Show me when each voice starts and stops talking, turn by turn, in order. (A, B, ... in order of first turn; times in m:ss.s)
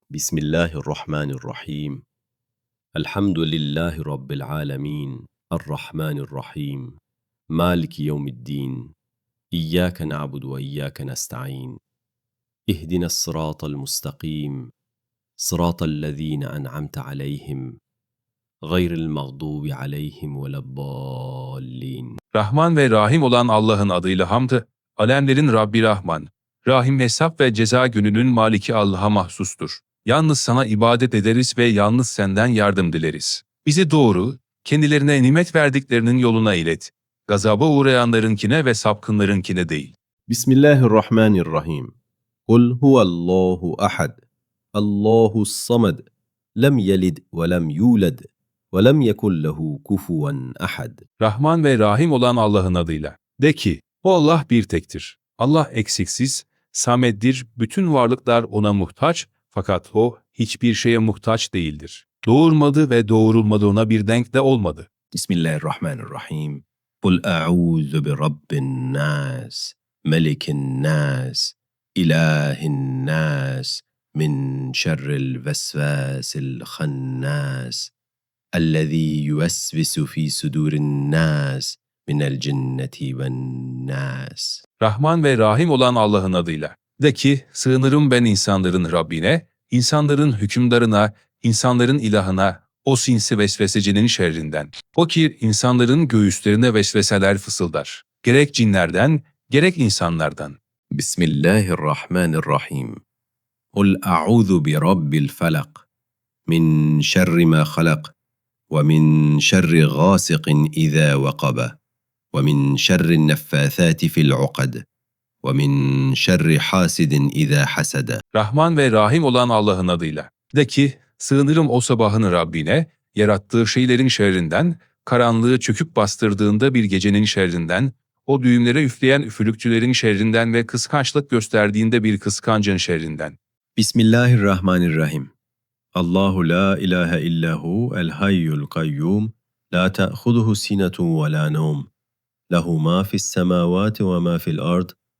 0:00.1-0:02.0 A
0:03.0-0:07.0 A
0:07.5-0:08.9 A
0:09.5-0:11.8 A
0:12.7-0:14.7 A
0:15.4-0:17.8 A
0:18.6-0:22.2 A
0:22.3-0:39.9 B
0:40.3-0:42.0 A
0:42.5-0:44.2 A
0:44.8-0:46.1 A
0:46.6-0:51.0 A
0:51.2-1:04.9 B
1:05.1-1:17.9 A
1:18.6-1:24.6 A
1:24.8-1:40.6 B
1:40.9-1:43.0 A
1:43.8-1:45.8 A
1:46.5-1:48.1 A
1:48.7-1:51.8 A
1:52.3-1:54.8 A
1:55.4-1:58.2 A
1:58.3-2:13.4 B
2:13.8-2:15.3 A
2:16.0-2:21.9 A
2:22.5-2:25.0 A